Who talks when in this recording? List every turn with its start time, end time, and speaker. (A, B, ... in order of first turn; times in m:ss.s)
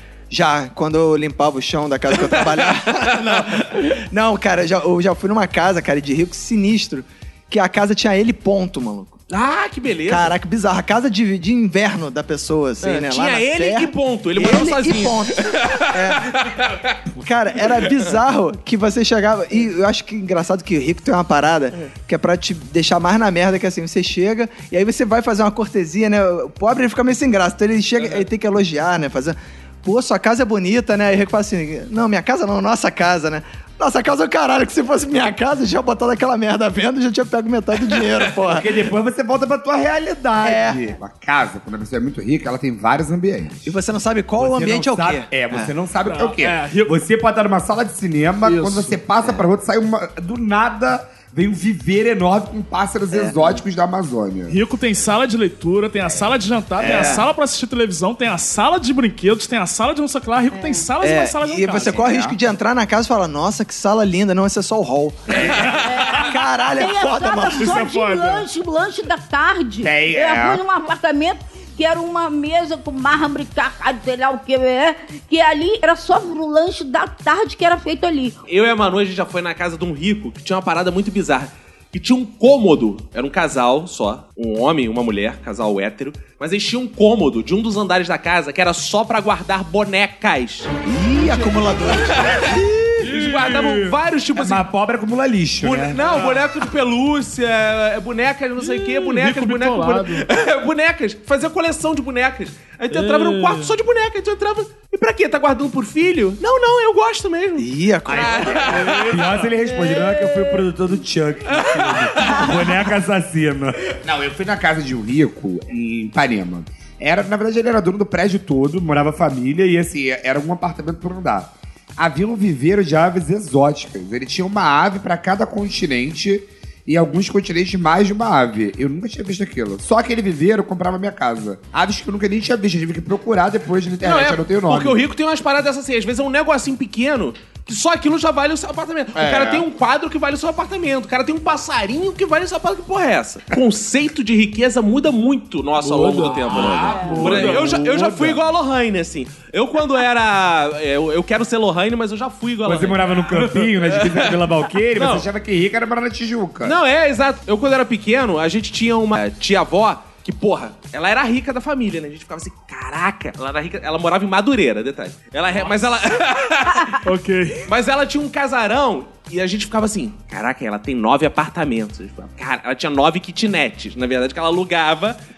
0:00.3-0:09.2 A
0:02.2-0:03.5 B
0:09.3-0:10.4 B
0:10.1-0:16.3 A
0:12.8-0:17.0 B
0:17.2-0:38.7 A
0:17.7-0:18.1 B
0:38.5-0:43.8 C
0:40.4-0:40.8 A
0:43.6-0:45.7 A
0:44.4-0:54.6 C
0:46.1-0:47.0 D
0:48.4-0:49.0 D
0:53.1-0:53.6 A
0:54.5-1:02.1 D
0:56.8-0:57.3 A
0:56.8-0:57.2 C
1:01.0-1:07.8 A
1:01.8-1:02.4 C
1:05.4-1:05.8 B
1:05.4-1:06.0 D
1:05.8-1:18.4 E
1:07.6-1:08.5 D
1:09.8-1:10.6 C
1:18.5-1:30.7 B
1:30.8-1:33.1 A
1:31.2-1:32.5 B
1:33.0-1:34.6 B
1:33.1-1:33.8 D
1:34.4-1:36.0 C
1:35.6-1:49.2 B
1:36.0-1:36.5 D
1:38.6-1:40.3 D
1:42.9-1:43.7 D
1:47.6-1:48.9 A
1:48.1-2:15.0 C
1:48.7-1:49.6 D
1:51.5-1:52.6 B
2:14.0-2:35.3 B
2:19.2-2:19.7 C
2:25.8-2:27.9 D
2:26.2-2:28.4 C
2:32.6-2:36.8 C
2:36.6-2:47.0 B
2:47.0-2:47.7 D
2:47.7-2:55.2 B